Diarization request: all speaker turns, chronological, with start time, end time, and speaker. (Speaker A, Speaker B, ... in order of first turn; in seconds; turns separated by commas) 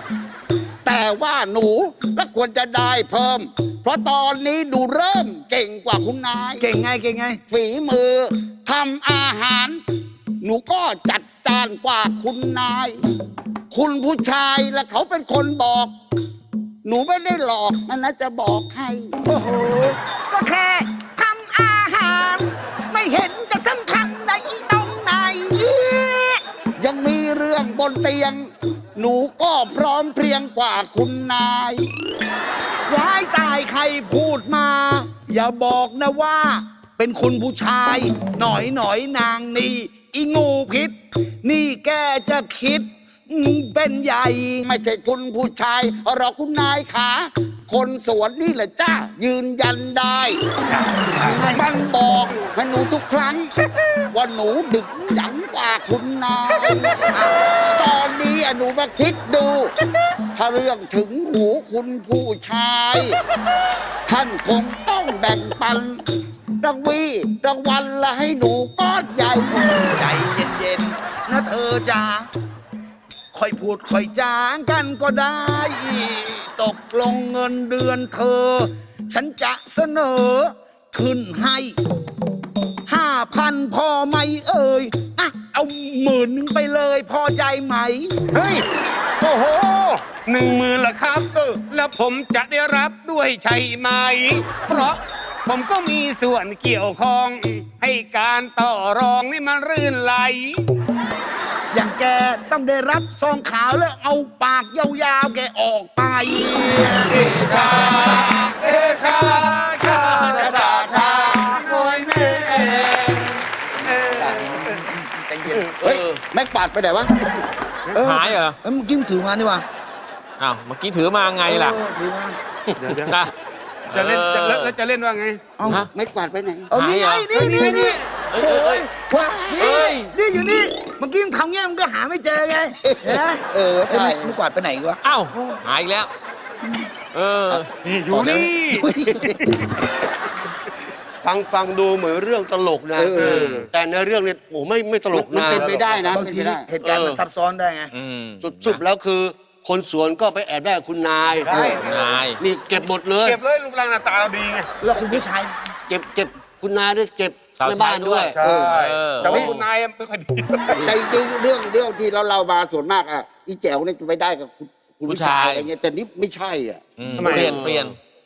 Speaker A: 0.8-6.7, Speaker B: 6.6-7.4, Speaker A: 7.5-9.8, Speaker A: 10.4-13.0, Speaker A: 13.7-15.9, Speaker A: 16.9-19.1, Speaker B: 19.2-26.4, Speaker A: 26.8-31.9, Speaker B: 32.9-44.6, Speaker A: 44.6-50.4, Speaker C: 50.7-51.4, Speaker B: 51.2-51.6, Speaker A: 51.5-53.5, Speaker A: 54.1-57.1, Speaker B: 57.1-57.4, Speaker A: 57.8-59.7, Speaker A: 60.3-63.2, Speaker A: 64.1-66.0, Speaker A: 66.6-69.6, Speaker B: 69.7-72.3, Speaker B: 73.3-81.8, Speaker B: 82.9-88.2, Speaker C: 88.3-88.7, Speaker C: 89.2-100.7, Speaker B: 101.7-113.4, Speaker A: 107.1-108.3, Speaker C: 107.5-108.5, Speaker C: 109.1-110.6, Speaker A: 110.3-111.5, Speaker C: 111.1-112.1, Speaker D: 112.0-112.5, Speaker C: 113.8-114.8, Speaker B: 114.4-115.7, Speaker D: 115.5-116.2, Speaker A: 115.8-117.1, Speaker B: 117.9-119.6, Speaker E: 118.0-118.6, Speaker E: 120.4-121.8, Speaker B: 121.4-122.4, Speaker D: 122.7-123.1, Speaker C: 122.8-123.1, Speaker E: 123.9-124.8, Speaker C: 123.9-125.4, Speaker B: 125.6-125.8, Speaker A: 125.9-126.7, Speaker B: 126.7-135.0, Speaker E: 126.7-127.3, Speaker C: 127.3-128.0, Speaker E: 128.3-128.8, Speaker E: 129.5-130.1, Speaker A: 132.8-134.4, Speaker E: 135.0-136.1, Speaker E: 137.1-137.8, Speaker B: 137.5-139.4, Speaker C: 137.9-138.9, Speaker C: 139.4-139.7, Speaker D: 141.2-146.2, Speaker A: 143.0-143.7, Speaker E: 143.2-143.5, Speaker A: 145.1-146.7, Speaker B: 145.5-147.9, Speaker D: 146.8-147.2, Speaker E: 147.9-148.8, Speaker D: 148.4-153.4, Speaker C: 151.4-152.0, Speaker B: 151.5-151.8, Speaker E: 151.8-152.4, Speaker C: 153.2-154.7, Speaker B: 154.8-155.5, Speaker D: 155.9-158.3, Speaker E: 157.6-159.5, Speaker C: 158.3-160.8, Speaker A: 158.4-159.5, Speaker D: 159.2-159.7, Speaker D: 160.7-161.0, Speaker A: 160.8-166.8, Speaker E: 165.1-165.7, Speaker E: 167.0-168.0, Speaker C: 167.2-167.6, Speaker D: 167.2-167.9